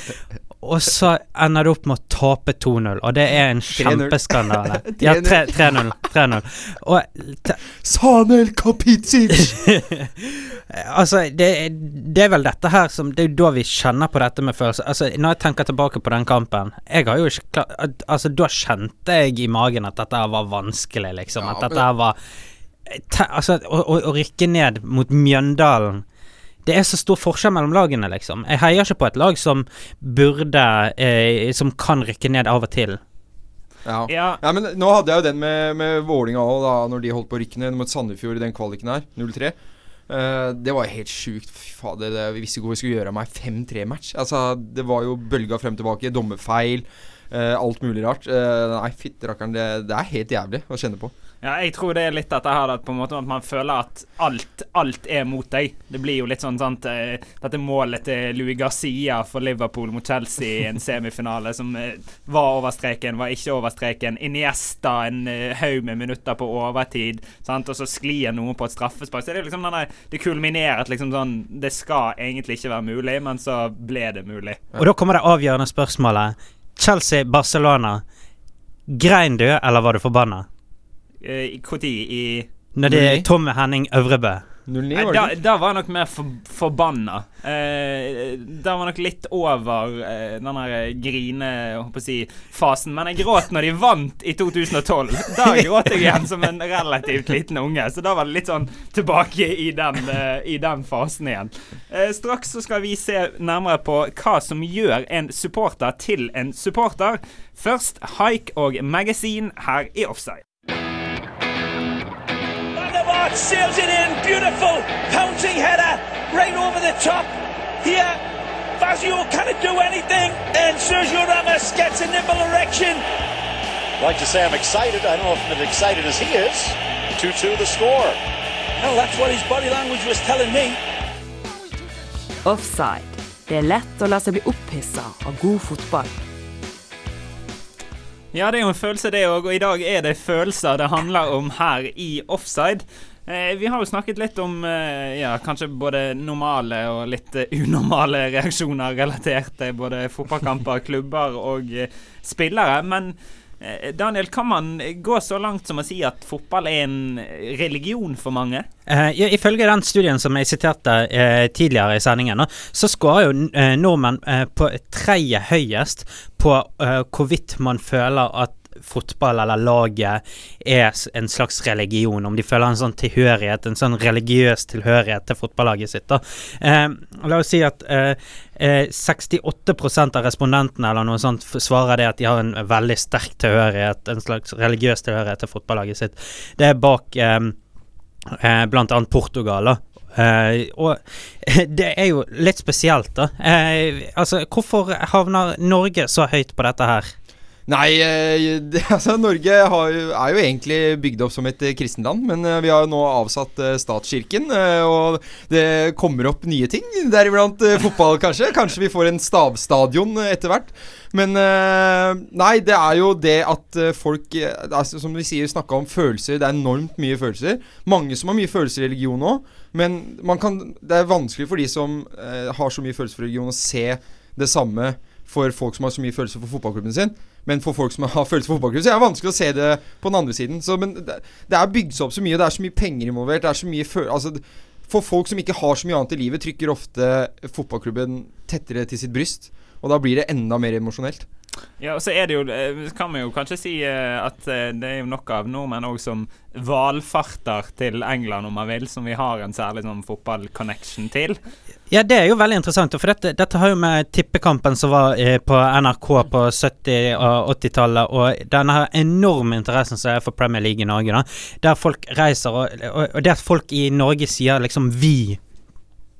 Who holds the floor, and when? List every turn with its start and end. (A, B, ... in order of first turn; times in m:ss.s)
0:00.6-0:07.6 A
0:03.7-0:05.7 B
0:07.8-0:09.6 B
0:09.5-0:22.2 A
0:21.4-0:21.8 B
0:22.9-0:26.0 A
0:26.6-0:33.0 A
0:33.9-0:39.5 B
0:34.1-0:34.4 C
0:40.1-0:51.1 B
0:51.4-1:14.6 C
1:14.8-1:18.0 A
1:18.9-1:20.5 A
1:21.2-1:22.5 C
1:22.7-1:24.4 A
1:22.9-1:23.2 B
1:24.7-1:25.3 B
1:24.9-1:50.4 C
1:52.7-1:57.3 D
1:57.8-1:58.2 D
1:58.8-2:03.0 D
2:04.0-2:08.2 E
2:08.8-2:10.8 D
2:12.4-2:16.2 F
2:18.3-2:38.6 C
2:38.9-3:07.6 A
3:08.3-3:17.1 A
3:17.7-4:01.2 B
4:01.8-4:11.4 C
4:11.9-4:25.4 A